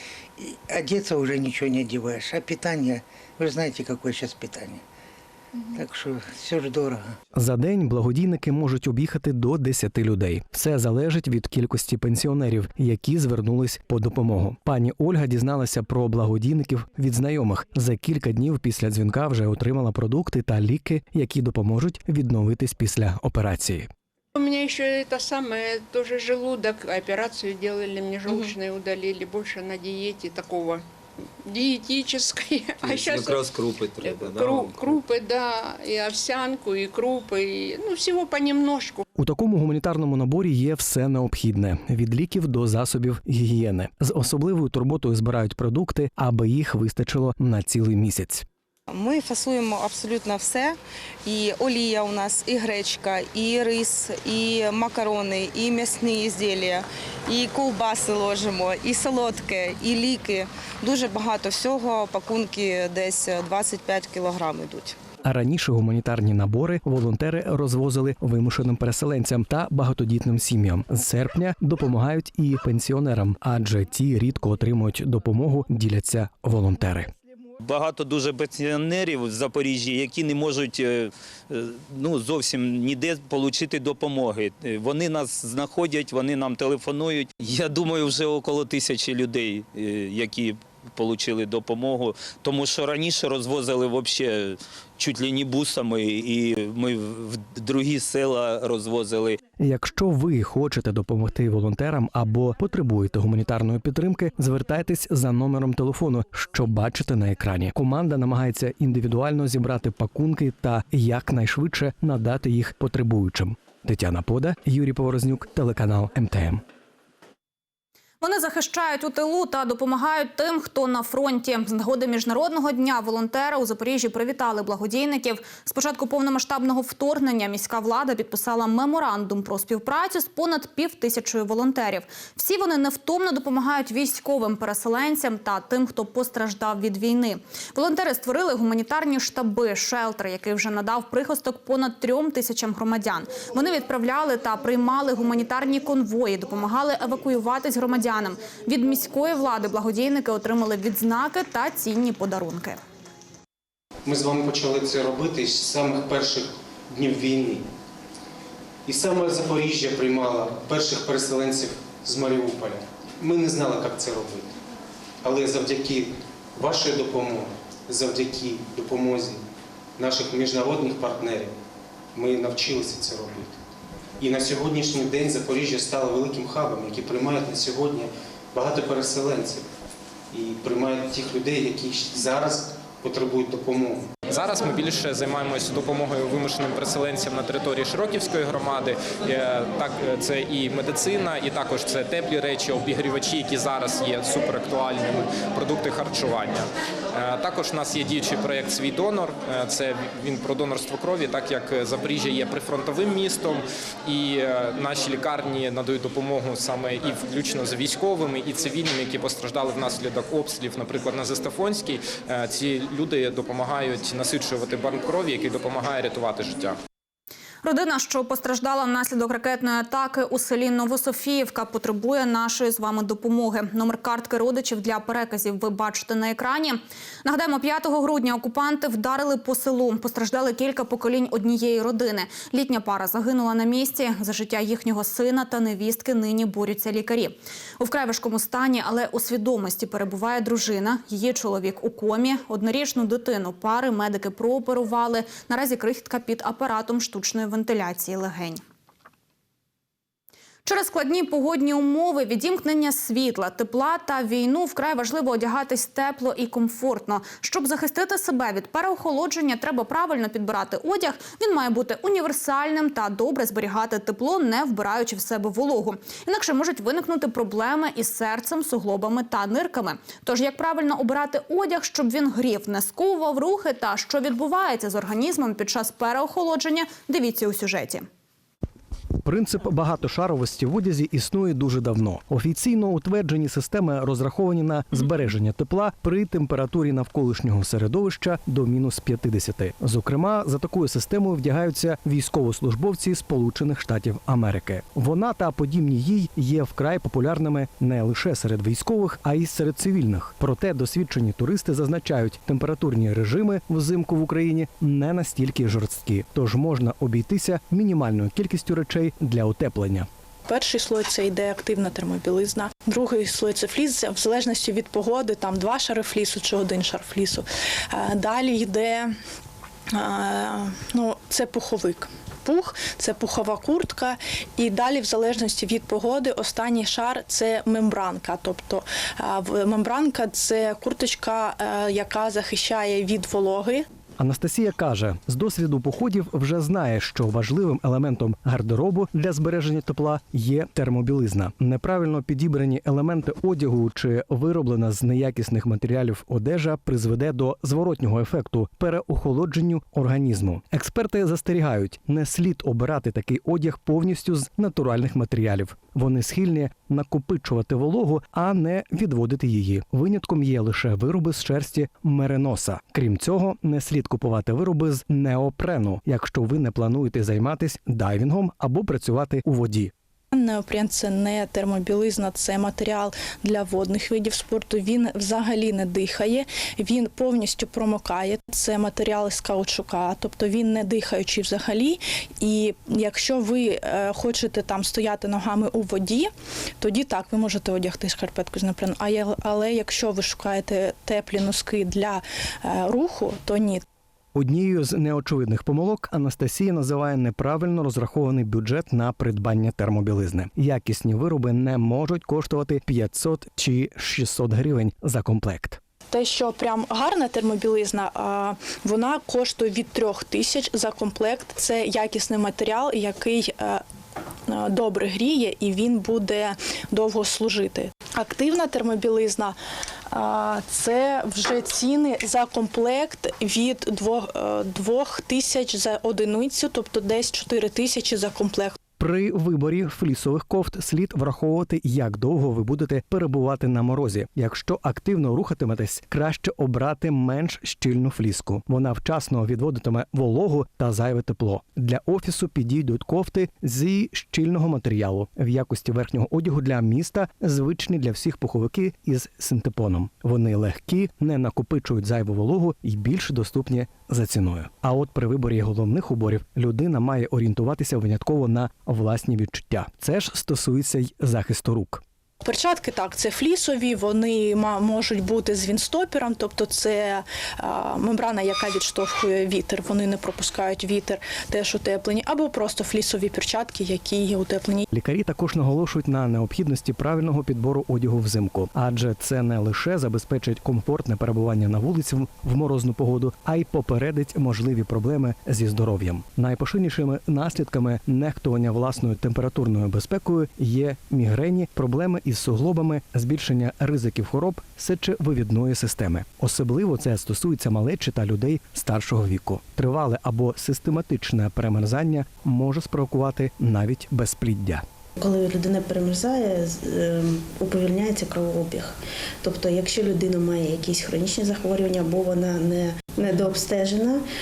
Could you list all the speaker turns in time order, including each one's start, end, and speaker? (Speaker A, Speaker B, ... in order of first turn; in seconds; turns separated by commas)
Speaker A: 0.4-4.8, Speaker A: 5.7-7.1, Speaker B: 7.3-23.9, Speaker C: 24.4-30.9, Speaker C: 31.4-39.0, Speaker D: 33.0-34.5, Speaker B: 39.2-48.5, Speaker E: 48.9-65.0, Speaker B: 65.2-77.1, Speaker D: 77.6-99.4, Speaker B: 99.6-116.6, Speaker F: 118.2-152.8, Speaker G: 154.1-157.7, Speaker G: 158.9-164.5, Speaker G: 165.2-169.4, Speaker G: 170.0-171.6, Speaker G: 172.1-173.6, Speaker G: 174.2-179.7, Speaker G: 180.3-184.1, Speaker H: 184.3-216.8, Speaker F: 217.6-248.6, Speaker F: 250.7-278.1, Speaker B: 279.2-310.1, Speaker I: 310.5-319.1, Speaker I: 319.9-333.9, Speaker B: 334.2-369.9, Speaker I: 370.3-386.3, Speaker I: 386.8-393.8, Speaker B: 394.3-405.8, Speaker I: 406.1-413.8, Speaker I: 414.5-419.6, Speaker I: 420.1-428.8, Speaker B: 429.0-462.0, Speaker I: 462.4-474.9, Speaker B: 474.9-504.8, Speaker J: 505.2-514.2